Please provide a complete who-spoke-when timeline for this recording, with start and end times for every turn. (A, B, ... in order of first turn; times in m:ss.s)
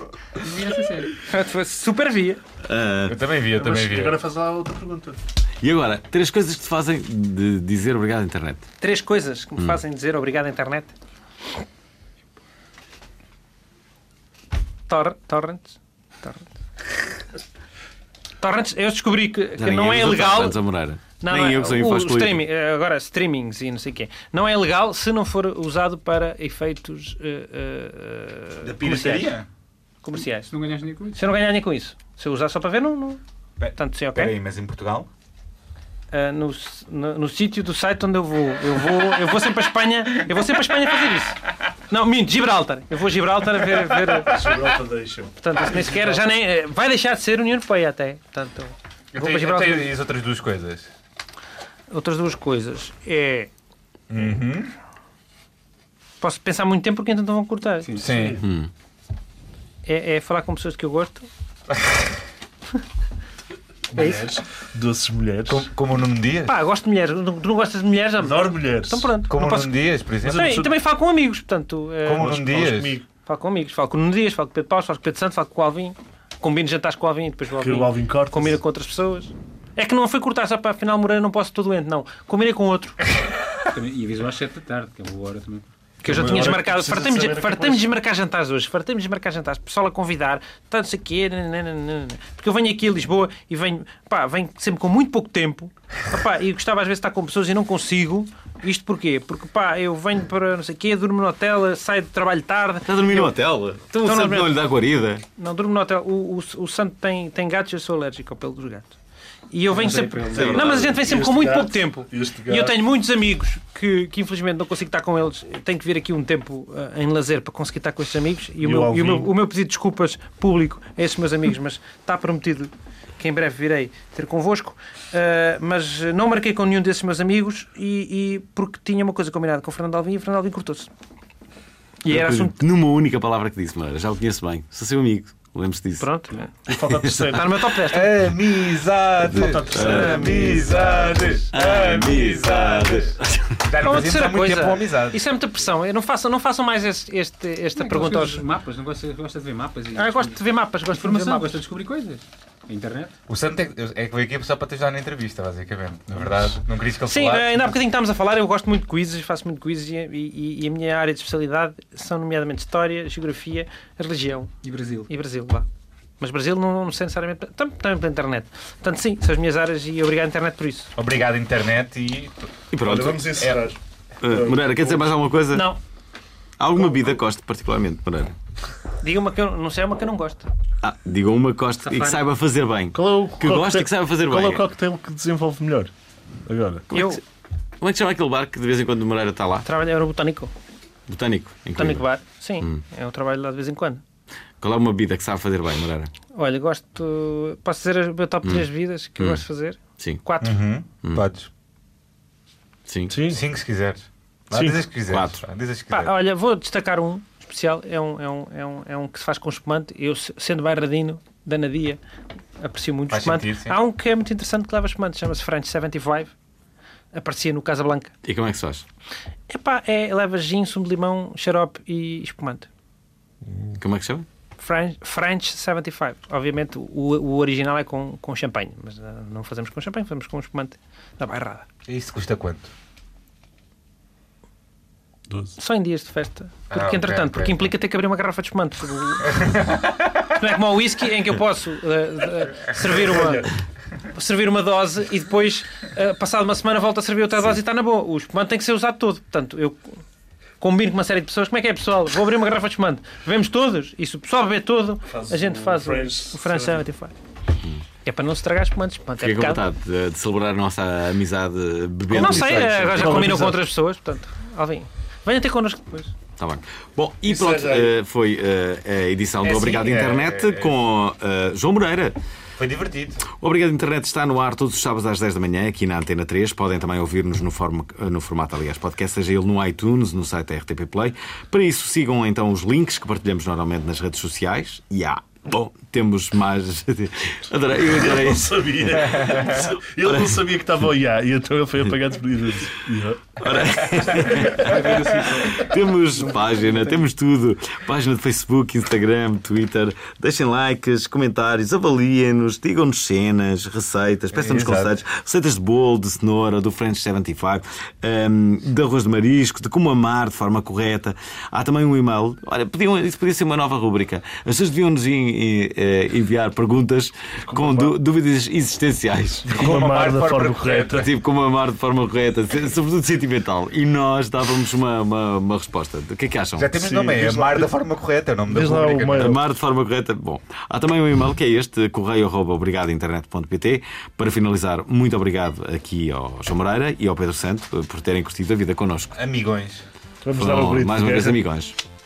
0:00.4-0:01.1 A
0:01.2-0:02.4 B
0:02.6-0:03.2 C
0:03.1-0:04.2 D
0:03.6-0:05.2 E
0:05.6-0:08.7 C
0:08.8-0:10.9 B
0:14.9-0:16.5 B
0:18.4-0:20.6 B
0:19.6-0:22.4 C
0:21.2-0:29.4 B
0:28.6-0:29.5 D
0:30.0-0:30.5 B
0:30.5-0:31.2 A
0:31.1-0:33.2 B
0:33.6-0:35.1 D
0:33.8-0:34.3 B
0:36.1-0:44.5 B
0:44.2-0:46.2 E
0:45.4-0:49.9 B
0:49.1-0:50.9 D
0:51.9-0:53.5 B
0:54.1-0:54.7 D
0:56.2-0:58.0 B
0:57.9-0:58.3 A
0:58.0-0:58.4 D
0:58.4-0:58.7 C
0:59.9-1:01.3 B
1:01.7-1:02.1 D
1:03.9-1:05.7 E
1:05.5-1:06.5 D
1:06.5-1:12.4 B
1:08.2-1:09.1 E
1:09.3-1:10.6 D
1:10.2-1:10.7 E
1:12.0-1:13.0 D
1:12.2-1:13.0 E
1:13.2-1:23.0 B
1:17.6-1:18.6 E
1:23.7-1:25.6 A
1:26.0-1:27.9 E
1:26.0-1:43.3 B
1:42.9-1:45.2 C
1:43.9-1:44.6 B
1:45.4-1:49.0 B
1:49.5-2:10.9 B
1:49.7-1:51.0 A
1:50.3-1:50.9 C
1:50.4-1:52.8 E
1:58.6-1:59.3 E
2:12.0-2:12.5 B
2:12.1-2:16.1 C
2:16.0-2:16.5 B
2:16.7-2:17.5 E
2:16.7-2:17.6 C
2:17.3-2:18.2 B
2:17.9-2:25.2 D
2:19.2-2:21.5 E
2:19.4-2:20.5 C
2:19.9-2:20.5 B
2:21.5-2:23.7 C
2:23.8-2:28.4 B
2:27.8-2:30.4 A
2:30.0-2:31.6 B
2:31.0-2:33.2 A
2:33.3-2:37.8 D
2:37.1-2:44.5 B
2:44.6-2:45.1 A
2:45.1-2:45.7 B
2:46.2-2:50.9 B
2:51.0-2:52.5 D
2:52.7-2:53.5 C
2:52.8-2:55.1 E
2:53.4-2:53.7 D
2:54.2-2:55.7 C
2:55.5-2:55.8 B
2:56.6-2:58.4 C
2:59.0-3:00.5 B
3:00.8-3:04.6 C
3:01.9-3:02.2 B
3:02.9-3:05.9 E
3:06.5-3:06.8 E
3:06.9-3:07.2 C
3:06.9-3:07.2 B
3:07.8-3:09.7 C
3:09.6-3:10.5 B
3:11.1-3:12.0 C
3:11.8-3:14.0 B
3:14.6-3:16.1 C
3:16.3-3:20.6 B
3:20.4-3:21.5 D
3:22.9-3:23.2 C
3:23.1-3:23.4 E
3:23.3-3:26.2 D
3:24.5-3:24.8 E
3:25.1-3:25.4 C
3:25.9-3:32.0 B
3:32.6-3:36.3 B
3:33.1-3:33.8 D
3:37.1-3:38.1 B
3:38.2-3:38.8 C
3:39.5-3:42.7 B
3:43.8-3:44.3 C
3:44.6-3:51.6 B
3:51.9-3:52.7 D
3:55.6-3:59.6 B
3:56.7-3:57.7 D
3:59.4-4:00.0 D
4:00.2-4:03.5 B
4:03.0-4:03.4 E
4:04.1-4:10.0 B
4:10.6-4:17.1 B
4:15.1-4:16.8 E
4:18.0-4:19.6 B
4:19.2-4:23.5 C
4:22.1-4:23.3 D
4:22.2-4:26.1 B
4:22.9-4:23.6 E
4:26.4-4:32.2 C
4:27.3-4:27.9 E
4:29.4-4:30.8 D
4:32.6-4:33.3 D
4:33.3-4:50.4 C
4:47.8-4:53.4 E
4:53.4-5:19.6 C
4:54.4-4:54.8 E
4:54.6-4:55.6 A
4:56.2-4:57.0 A
5:04.3-5:05.0 D
5:17.4-5:17.9 E
5:19.5-5:21.1 D
5:19.5-5:21.1 E
5:20.9-5:26.7 C
5:26.6-5:29.4 D
5:26.8-5:27.7 E
5:28.5-5:29.4 E
5:29.2-5:39.2 C
5:39.2-5:39.8 D
5:40.2-5:41.4 E
5:40.4-5:41.8 C